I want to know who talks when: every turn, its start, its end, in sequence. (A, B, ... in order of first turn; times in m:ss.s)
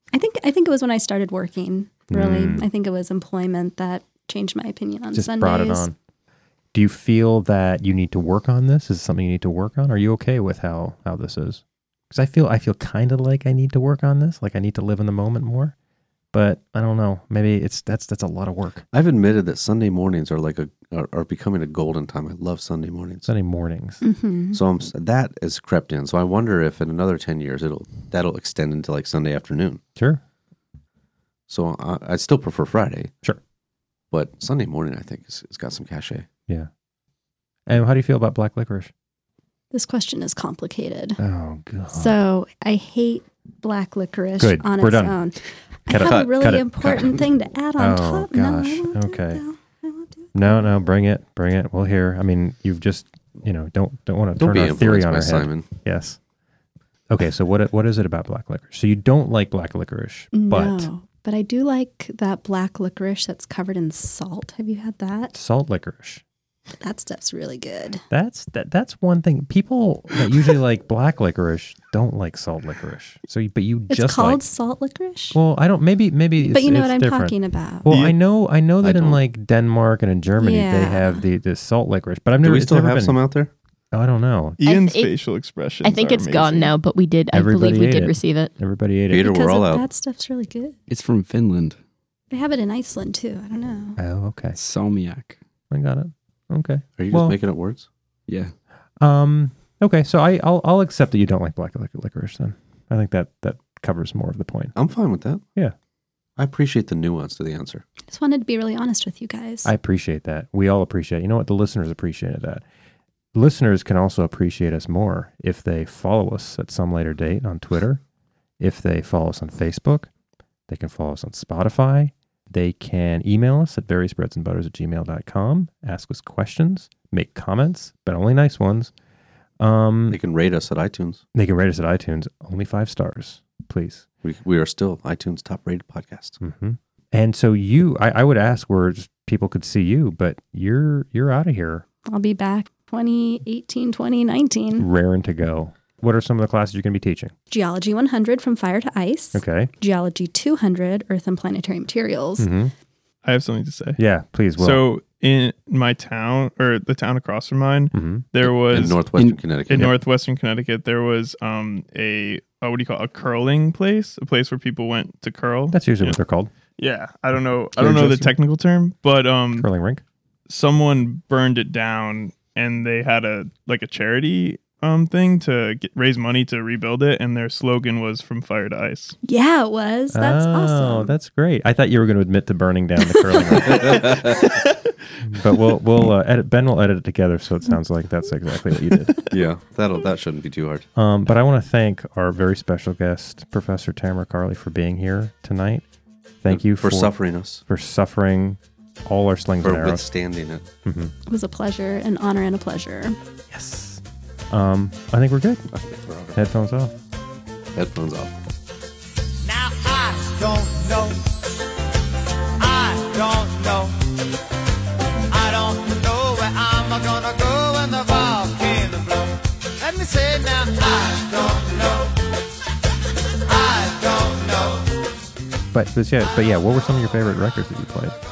0:00.1-0:05.9 A
0:02.1-0:02.7 B
0:05.1-0:06.0 B
0:06.7-0:15.7 B
0:16.3-0:18.8 B
0:18.9-0:23.3 C
0:23.3-0:24.0 B
0:24.0-0:24.6 A
0:24.5-0:29.8 C
0:30.0-0:30.2 B
0:31.5-0:33.1 C
0:34.1-0:36.3 C
0:37.7-0:38.9 B
0:39.7-0:41.2 A
0:41.2-0:42.2 B
0:41.9-0:50.7 A
0:44.4-0:45.2 B
0:45.9-0:47.0 B
0:47.8-0:49.4 B
0:50.3-0:56.2 B
0:54.4-0:55.7 C
0:57.1-1:00.9 B
1:00.3-1:05.3 A
1:05.3-1:06.2 B
1:06.8-1:08.0 A
1:08.1-1:14.4 B
1:13.9-1:15.4 A
1:15.3-1:23.2 B
1:16.4-1:17.9 A
1:17.9-1:18.2 D
1:18.8-1:19.2 C
1:20.4-1:21.2 A
1:22.4-1:23.5 C
1:23.9-1:24.6 B
1:24.6-1:26.7 D
1:24.6-1:25.1 E
1:25.8-1:28.5 E
1:27.3-1:29.2 B
1:29.1-1:29.8 C
1:29.2-1:30.8 A
1:30.9-1:31.8 F
1:32.3-1:34.0 A
1:34.0-1:34.6 B
1:34.6-1:35.4 F
1:35.7-1:37.4 B
1:37.0-1:37.9 C
1:38.3-1:38.5 F
1:39.0-1:44.8 B
1:44.8-1:45.4 C
1:46.4-1:47.8 C
1:48.1-1:49.7 A
1:49.6-1:52.6 B
1:53.3-1:58.0 B
1:58.6-2:00.1 B
2:00.7-2:08.9 B
2:09.6-2:10.2 B
2:10.1-2:11.2 C
2:11.3-2:14.0 B
2:14.2-2:16.4 C
2:16.4-2:21.8 B
2:22.1-2:24.9 A
2:24.8-2:27.3 B
2:27.5-2:32.5 A
2:29.3-2:29.7 B
2:32.4-2:32.7 B
2:33.2-2:34.0 D
2:34.0-2:34.8 B
2:34.6-2:39.0 D
2:37.9-2:38.3 B
2:38.4-2:40.0 C
2:39.1-2:39.5 F
2:39.7-2:46.2 D
2:45.7-2:46.5 B
2:46.8-2:49.7 D
2:47.8-2:48.3 B
2:49.5-2:50.0 B
2:50.5-2:59.2 D
2:59.3-3:01.1 A
3:00.1-3:04.2 B
3:03.6-3:04.5 C
3:05.2-3:09.2 B
3:09.3-3:10.9 C
3:11.0-3:15.8 B
3:16.4-3:20.1 B
3:16.5-3:17.6 C
3:19.6-3:20.7 C
3:20.8-3:21.1 B
3:21.3-3:23.2 A
3:23.5-3:25.6 B
3:25.7-3:26.4 C
3:26.3-3:27.0 B
3:27.8-3:28.3 C
3:29.4-3:31.3 G
3:32.6-3:34.0 G
3:35.3-3:42.2 G
3:43.5-3:44.9 G
3:45.7-3:48.2 B